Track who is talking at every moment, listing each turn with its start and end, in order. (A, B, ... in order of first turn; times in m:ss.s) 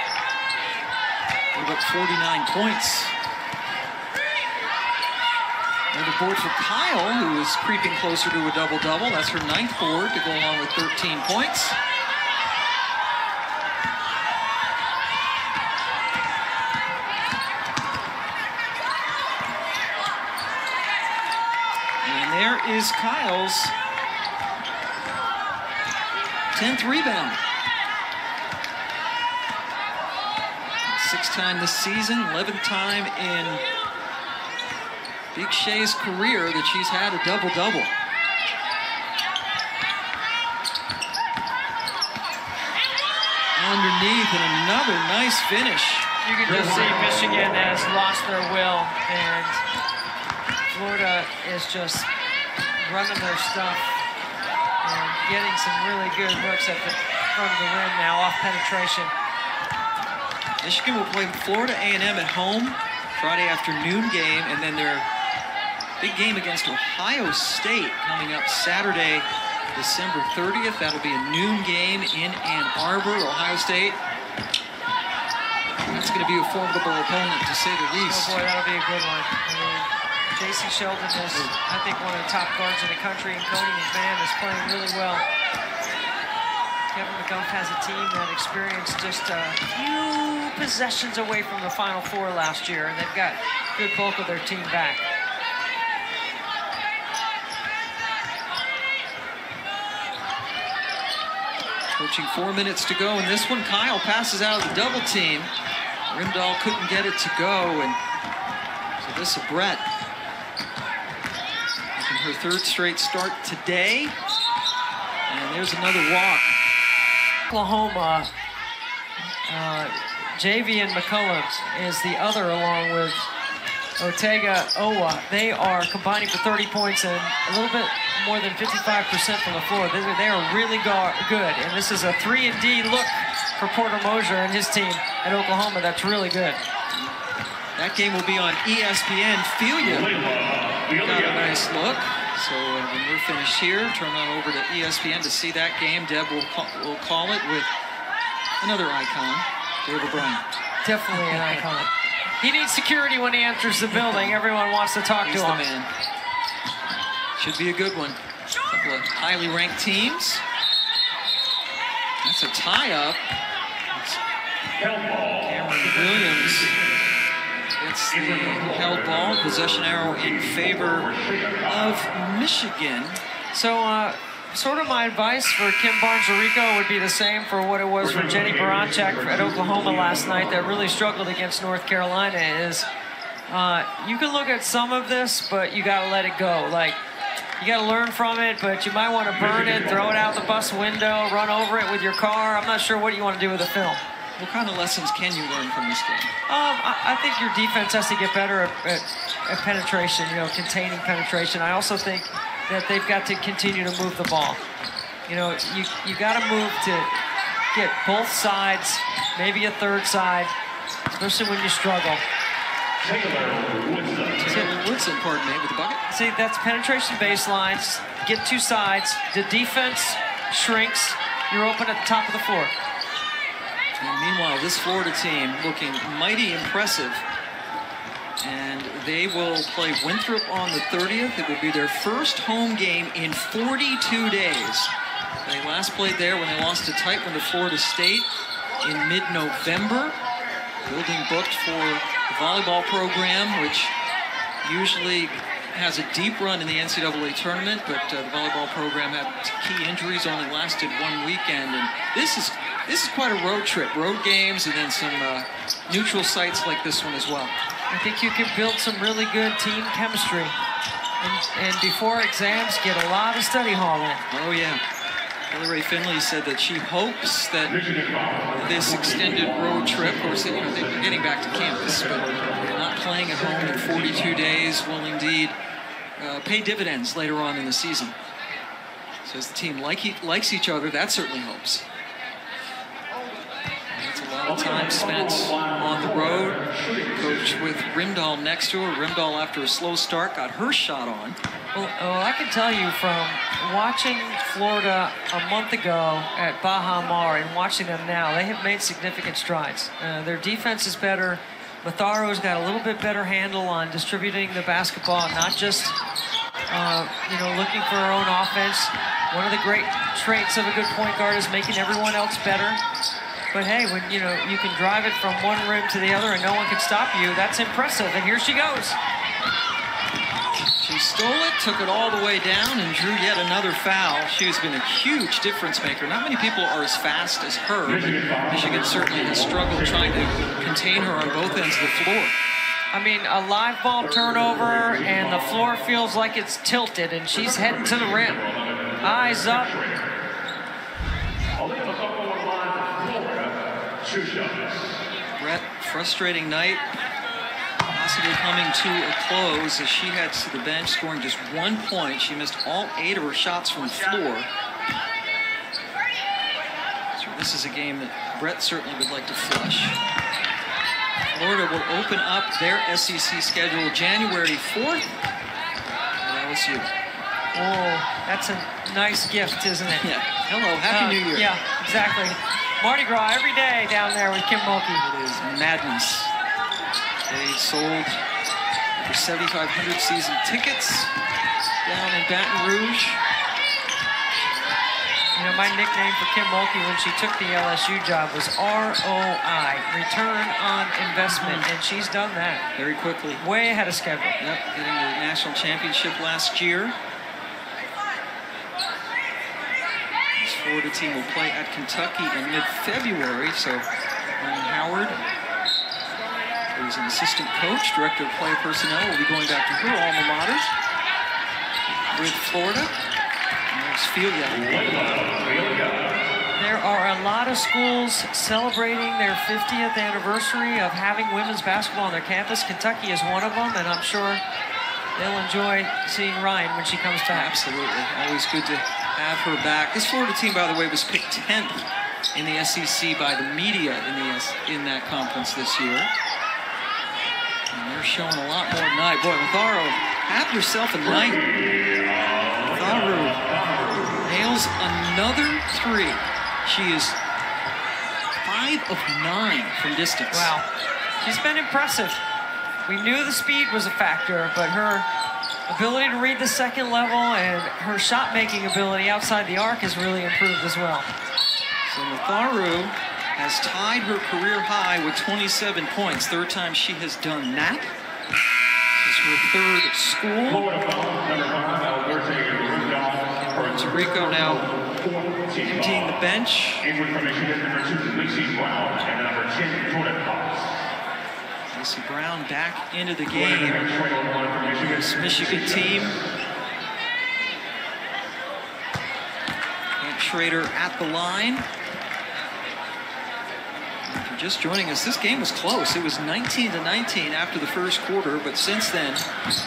0:01.5-0:03.2 A
0:05.9-0:11.8 A
0:22.0-0:23.8 A
0:26.5-0:27.4 A
0:30.8-0:33.6 A
0:35.3-0:38.0 A
0:43.6-0:46.1 A
0:46.2-0:49.6 B
0:46.4-0:47.8 C
0:50.7-0:52.1 B
0:52.8-0:54.0 B
0:54.8-0:59.1 B
1:00.6-1:05.1 A
1:06.0-1:14.0 A
1:15.9-1:18.4 A
1:18.0-1:25.3 B
1:26.9-1:35.1 B
1:42.0-1:45.5 A
1:46.1-1:48.0 A
1:49.0-1:49.9 A
1:52.0-1:54.2 A
1:55.3-1:56.6 A
1:57.5-1:58.3 B
1:59.4-2:03.3 B
2:04.0-2:16.6 B
2:17.8-2:20.1 A
2:19.8-2:21.6 C
2:21.0-2:27.7 A
2:28.6-2:30.4 A
2:30.8-2:35.6 B
2:31.1-2:31.6 A
2:33.9-2:34.3 A
2:35.2-2:35.9 A
2:37.4-2:40.4 A
2:42.2-2:43.2 A
2:43.9-2:44.2 A
2:44.8-2:46.9 C
2:45.4-2:46.7 A
2:47.8-2:51.1 A
2:48.1-2:52.0 C
2:51.7-2:53.2 A
2:53.5-3:02.9 B
2:58.0-3:00.5 C
3:03.5-3:07.0 B
3:07.6-3:14.0 B
3:09.3-3:10.2 C
3:14.4-3:16.3 A
3:16.5-3:24.6 B
3:25.3-3:30.5 B
3:31.1-3:32.2 B
3:33.0-3:34.7 C
3:34.4-3:36.0 A
3:36.1-3:42.8 B
3:44.0-3:47.3 A
3:48.4-3:54.9 A
3:55.4-4:00.2 A
4:00.8-4:04.0 A
4:04.6-4:17.6 A
4:17.9-4:20.6 B
4:21.2-4:24.2 B
4:24.3-4:24.8 A
4:25.5-4:27.8 A
4:27.7-4:32.8 C
4:28.5-4:35.6 A
4:33.4-4:34.4 C
4:36.2-4:38.2 A
4:39.2-4:41.9 A
4:43.9-4:51.4 A
4:44.4-4:47.8 C
4:51.7-5:06.0 B
5:06.7-5:12.8 B
5:13.5-5:19.0 B
5:20.6-5:32.4 A
5:27.8-5:31.9 C
5:32.9-5:38.4 B
5:34.0-5:35.8 C
5:37.3-5:40.2 C
5:39.0-5:39.8 B
5:41.6-5:45.0 C
5:45.4-5:46.9 A
5:47.9-5:54.5 A
5:57.1-6:00.0 A
6:01.3-6:05.2 A
6:06.2-6:06.9 A
6:07.5-6:10.1 B
6:10.0-6:11.5 A
6:10.9-6:15.0 B
6:15.0-6:16.3 A
6:17.3-6:18.2 A
6:19.0-6:21.1 A
6:21.8-6:23.2 A
6:25.4-6:32.7 B
6:31.3-6:31.7 A
6:32.8-6:33.4 A
6:33.4-6:34.4 B
6:34.4-6:37.0 A
6:40.4-6:43.9 A
6:44.4-6:45.2 A
6:46.7-6:50.7 A
6:51.9-6:52.9 A
6:53.7-6:54.9 A
6:54.5-6:56.2 C
6:56.6-7:04.4 B
7:05.2-7:07.6 B
7:07.3-7:16.1 A
7:17.7-7:21.4 A
7:21.1-7:24.2 C
7:22.7-7:23.5 A
7:24.2-7:27.2 A
7:28.4-7:30.5 A
7:30.3-7:30.7 B
7:31.2-7:32.2 B
7:32.9-7:35.1 B
7:35.7-7:41.1 B
7:41.9-7:47.9 A
7:49.0-7:50.7 A
7:50.4-7:56.2 C
7:52.4-7:54.7 A
7:55.6-7:56.9 A
7:56.8-8:00.8 C
8:01.7-8:03.9 A
8:03.3-8:06.0 C
8:04.6-8:06.2 A
8:10.0-8:11.7 A
8:14.0-8:19.3 A